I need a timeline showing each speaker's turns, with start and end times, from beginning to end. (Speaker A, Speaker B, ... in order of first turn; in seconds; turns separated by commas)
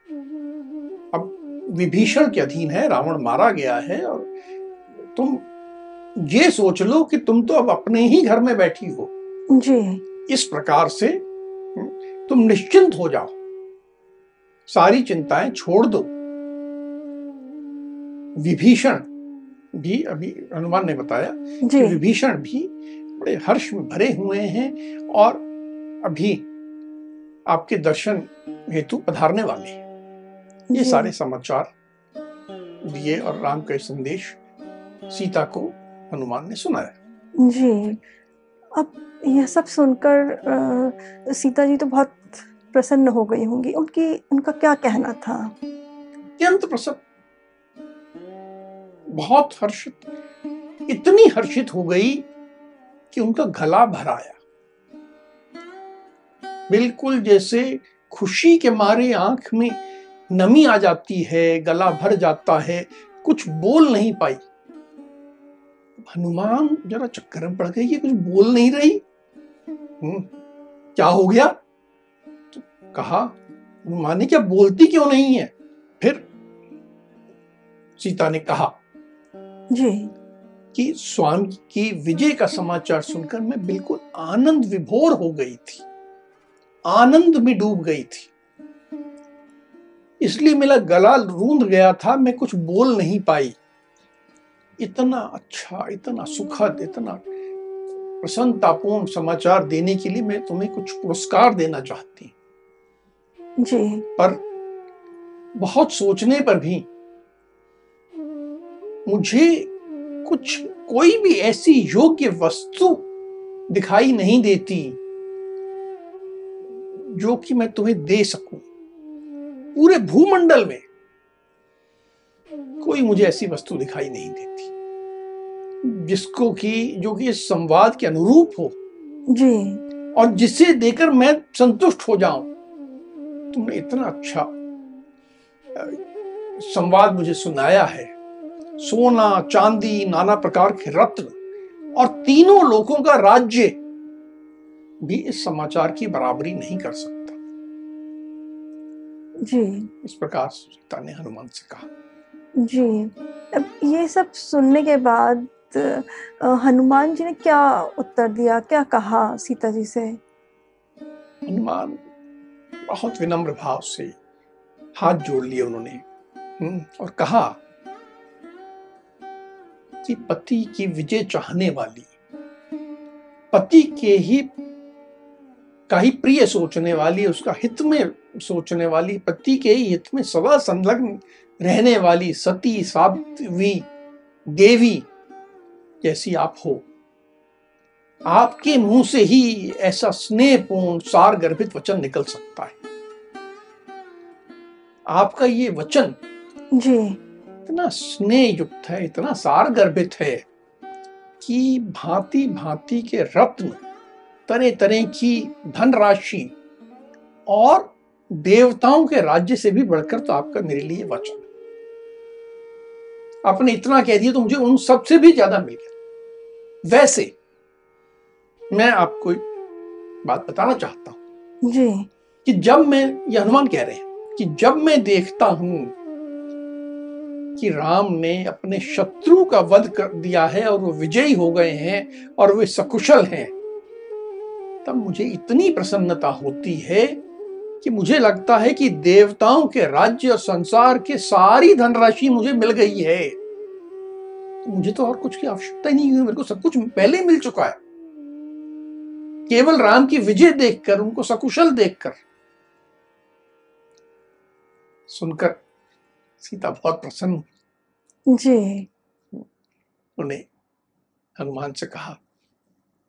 Speaker A: 1.1-4.3, Speaker A: 5.0-5.5, Speaker A: 6.2-9.1, Speaker B: 9.5-10.0, Speaker A: 10.3-11.2, Speaker A: 11.8-13.3, Speaker A: 14.7-16.1, Speaker A: 18.4-19.1, Speaker A: 19.7-25.4, Speaker B: 21.6-22.0, Speaker A: 26.0-26.4, Speaker A: 27.5-29.8, Speaker B: 30.7-31.1, Speaker A: 30.7-31.7, Speaker A: 32.8-34.4, Speaker A: 35.1-37.0, Speaker B: 37.4-38.0, Speaker B: 38.8-45.5, Speaker A: 46.4-47.0, Speaker A: 49.1-50.0, Speaker A: 50.9-52.3, Speaker A: 53.1-54.4, Speaker A: 56.7-59.8, Speaker A: 60.3-64.4, Speaker A: 66.0-69.0, Speaker A: 70.0-70.3, Speaker A: 71.0-71.5, Speaker A: 72.5-76.3, Speaker A: 78.0-78.8, Speaker B: 79.7-80.1, Speaker A: 80.7-85.8, Speaker A: 86.9-88.3, Speaker A: 90.2-93.6, Speaker A: 94.8-97.2, Speaker A: 98.2-102.3, Speaker B: 103.6-104.1, Speaker A: 105.6-106.9, Speaker A: 109.1-109.7, Speaker A: 110.2-113.1, Speaker A: 113.7-115.0, Speaker A: 116.9-118.7, Speaker A: 119.8-120.8, Speaker A: 122.8-124.7, Speaker A: 125.8-128.8, Speaker B: 129.3-129.8, Speaker A: 130.2-132.5, Speaker A: 133.5-134.5, Speaker A: 135.7-136.0, Speaker A: 136.6-138.1, Speaker A: 138.8-141.3, Speaker A: 141.9-143.8, Speaker A: 145.0-147.4, Speaker B: 149.4-149.9, Speaker A: 150.0-151.9, Speaker B: 152.6-160.2, Speaker A: 161.5-162.0, Speaker A: 162.9-164.1, Speaker A: 165.0-166.0, Speaker A: 166.6-167.6, Speaker A: 170.0-172.1, Speaker A: 173.5-174.5, Speaker A: 175.9-183.9, Speaker A: 184.5-185.1, Speaker A: 186.0-186.8, Speaker A: 188.3-192.8, Speaker A: 195.1-196.2, Speaker B: 196.8-197.2, Speaker A: 197.7-200.4, Speaker A: 201.4-203.8, Speaker A: 204.5-206.5, Speaker A: 207.5-211.4, Speaker A: 213.4-215.9, Speaker A: 216.8-217.3, Speaker A: 218.7-219.4, Speaker A: 220.2-221.2, Speaker B: 221.7-222.1, Speaker A: 222.4-225.9, Speaker A: 227.6-233.5, Speaker A: 234.8-237.2, Speaker A: 237.8-243.4, Speaker A: 244.6-247.8, Speaker A: 249.5-252.2, Speaker A: 255.1-255.6, Speaker A: 256.4-257.5, Speaker B: 258.3-258.9, Speaker A: 260.2-260.4, Speaker A: 261.4-262.2